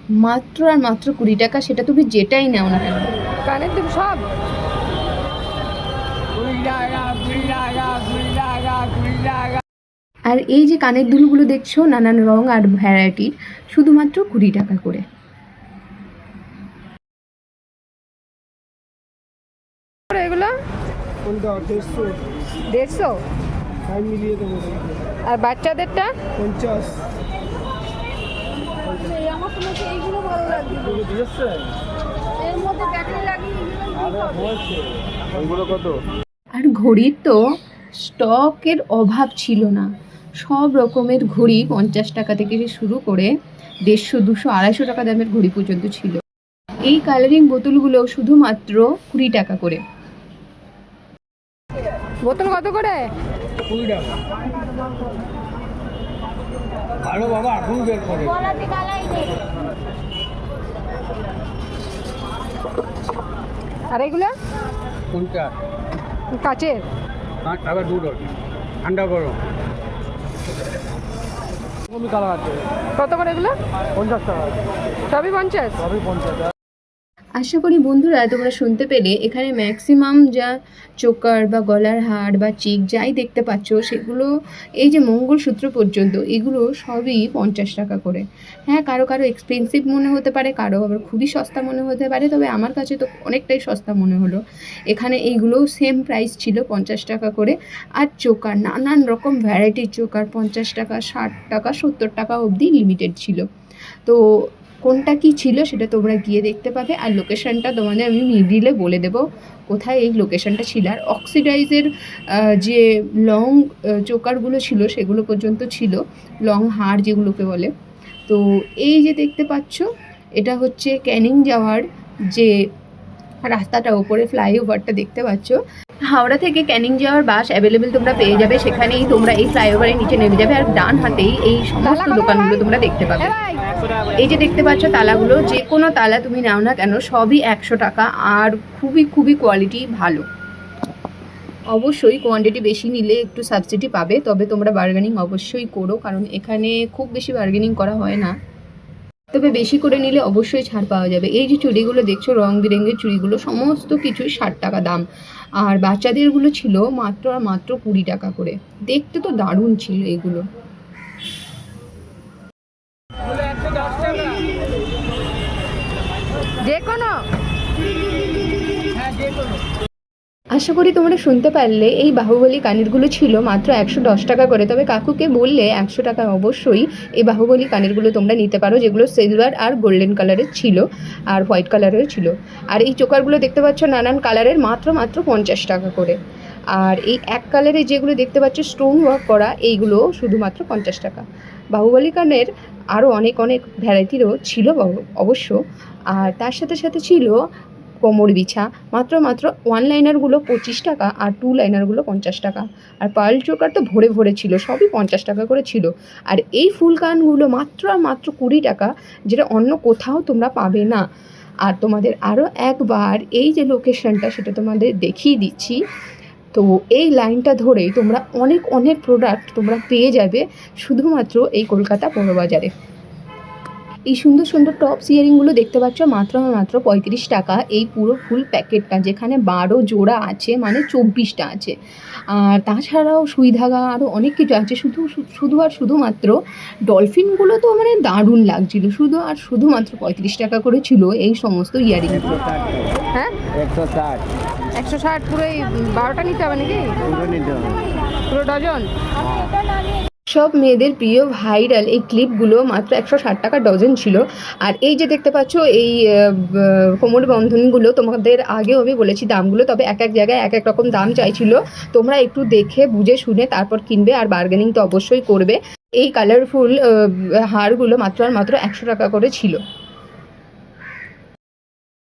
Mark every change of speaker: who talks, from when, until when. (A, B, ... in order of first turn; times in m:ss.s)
0:00.2-0:03.2 A
0:03.4-0:04.2 B
0:06.3-0:09.6 B
0:10.3-0:15.0 A
0:20.1-0:20.6 B
0:22.7-0:23.2 B
0:25.2-0:26.2 B
0:29.0-0:31.1 B
0:32.4-0:34.4 B
0:35.4-0:35.9 C
0:36.5-0:37.4 A
0:38.0-0:43.3 A
0:43.9-0:46.2 A
0:46.8-0:49.8 A
0:52.2-0:53.1 B
0:53.7-0:54.1 C
0:57.0-0:58.4 C
1:03.9-1:04.4 B
1:05.1-1:05.5 C
1:06.3-1:06.8 B
1:07.4-1:08.3 C
1:08.8-1:09.4 C
1:13.0-1:13.6 B
1:15.1-1:15.9 B
1:17.4-1:43.4 A
1:44.0-1:57.7 A
1:58.3-1:59.9 A
2:00.4-2:02.5 A
2:03.4-2:05.6 A
2:06.1-2:13.3 A
2:11.8-2:12.6 B
2:13.2-2:13.6 B
2:14.1-2:20.2 A
2:21.7-2:28.3 A
2:29.3-2:35.0 A
2:35.6-2:40.4 A
2:46.6-2:47.2 B
2:50.5-3:06.2 A
3:06.7-3:15.6 A
3:16.1-3:17.4 A
3:18.0-3:31.0 A
3:31.6-3:35.8 A
3:36.5-3:42.7 A
3:44.1-3:51.7 A
3:52.3-4:02.5 A
4:03.1-4:03.5 B
4:03.6-4:04.2 C
4:04.7-4:07.2 B
4:07.2-4:07.8 C
4:08.3-4:08.9 B
4:10.3-4:29.6 A